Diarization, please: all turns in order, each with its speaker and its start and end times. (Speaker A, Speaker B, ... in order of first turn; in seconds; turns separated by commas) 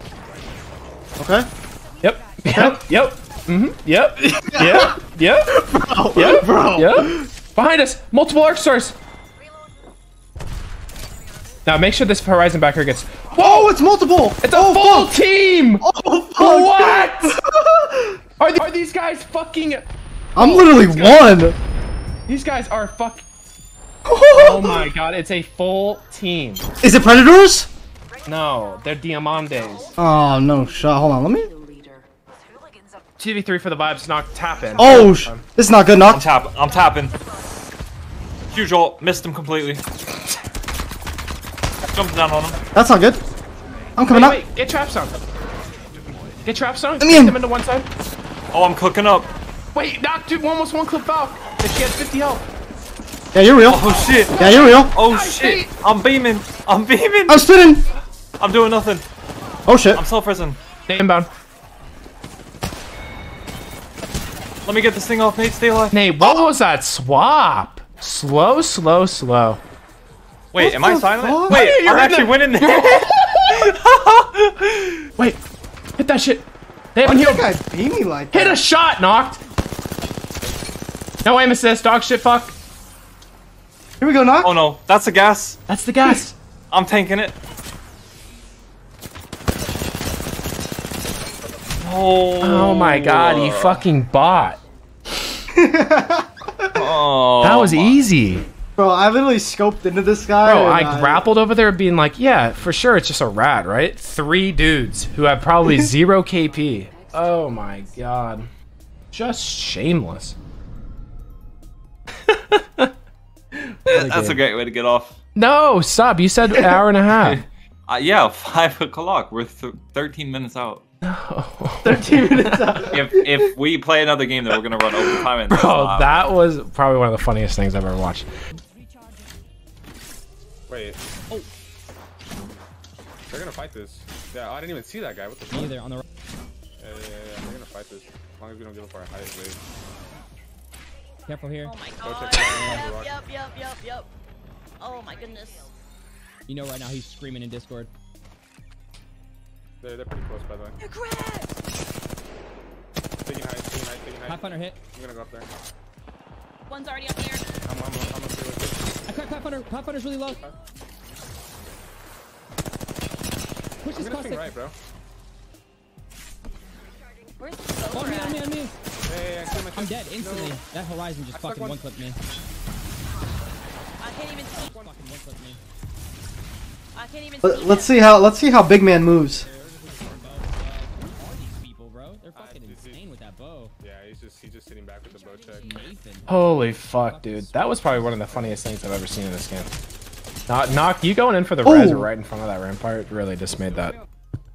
Speaker A: 1.2-1.5, Speaker B: 2.0-9.0, Speaker A: 4.3-5.0, Speaker A: 5.5-7.3, Speaker B: 11.7-13.7, Speaker A: 13.3-15.1, Speaker B: 14.4-15.9, Speaker A: 15.8-18.2, Speaker B: 16.4-17.4, Speaker B: 18.4-21.4, Speaker A: 20.4-21.6, Speaker B: 22.3-23.2, Speaker A: 24.1-24.9, Speaker B: 24.3-26.6, Speaker A: 26.8-27.7, Speaker B: 28.3-29.9, Speaker A: 30.0-31.5, Speaker B: 33.2-35.5, Speaker A: 34.8-36.3, Speaker C: 36.1-37.1, Speaker C: 38.5-39.8, Speaker C: 41.9-42.6, Speaker A: 42.7-43.2, Speaker A: 44.0-44.4, Speaker B: 44.1-45.1, Speaker B: 46.4-47.9, Speaker A: 47.0-47.4, Speaker C: 48.5-49.3, Speaker B: 49.7-52.5, Speaker A: 53.3-53.8, Speaker C: 53.6-57.4, Speaker B: 54.3-55.7, Speaker A: 54.4-54.9, Speaker A: 57.3-57.9, Speaker C: 58.4-59.1, Speaker A: 59.7-60.0, Speaker C: 59.9-60.6, Speaker B: 60.9-61.3, Speaker C: 64.7-66.0, Speaker B: 65.9-69.6, Speaker C: 70.5-75.1, Speaker A: 70.6-71.6, Speaker B: 71.5-73.7, Speaker B: 76.0-77.5, Speaker A: 77.0-78.6, Speaker B: 78.3-79.4, Speaker B: 81.2-82.5, Speaker A: 84.0-84.5, Speaker C: 84.4-85.6, Speaker B: 85.7-86.3, Speaker C: 86.7-87.4, Speaker C: 91.8-93.8, Speaker B: 92.4-94.6, Speaker A: 95.6-96.7, Speaker C: 96.7-98.0, Speaker B: 97.4-98.5, Speaker A: 98.8-101.2, Speaker B: 100.5-108.5, Speaker B: 109.1-110.4, Speaker B: 112.3-112.9, Speaker B: 113.5-114.4, Speaker C: 113.9-115.2, Speaker B: 115.3-117.4, Speaker C: 117.1-120.8, Speaker B: 121.0-122.9, Speaker A: 121.8-123.2, Speaker C: 122.9-126.3, Speaker B: 125.5-128.3, Speaker D: 130.7-131.0, Speaker D: 133.3-135.8, Speaker E: 135.5-136.0, Speaker D: 136.8-139.6, Speaker E: 141.3-141.8, Speaker F: 141.6-144.1, Speaker D: 142.0-143.1, Speaker F: 144.8-145.7, Speaker E: 146.5-147.9, Speaker D: 149.8-150.8, Speaker F: 150.8-151.6, Speaker D: 153.2-155.5, Speaker E: 154.3-154.8, Speaker F: 156.7-157.5, Speaker D: 157.6-159.0, Speaker E: 159.1-160.4, Speaker D: 160.3-160.5, Speaker E: 163.8-164.5, Speaker D: 164.0-164.8, Speaker F: 167.4-168.4, Speaker E: 167.9-168.7, Speaker D: 169.1-170.6, Speaker E: 169.7-172.2, Speaker D: 171.3-171.8, Speaker F: 174.0-174.7, Speaker D: 174.5-174.9, Speaker E: 174.6-175.6, Speaker F: 176.9-178.2, Speaker A: 177.4-179.5, Speaker E: 179.4-183.7, Speaker D: 182.3-183.1, Speaker D: 183.8-185.9, Speaker E: 185.6-186.3, Speaker B: 186.3-189.7, Speaker E: 187.0-188.2, Speaker B: 190.5-193.9, Speaker A: 191.6-192.1, Speaker D: 193.5-193.9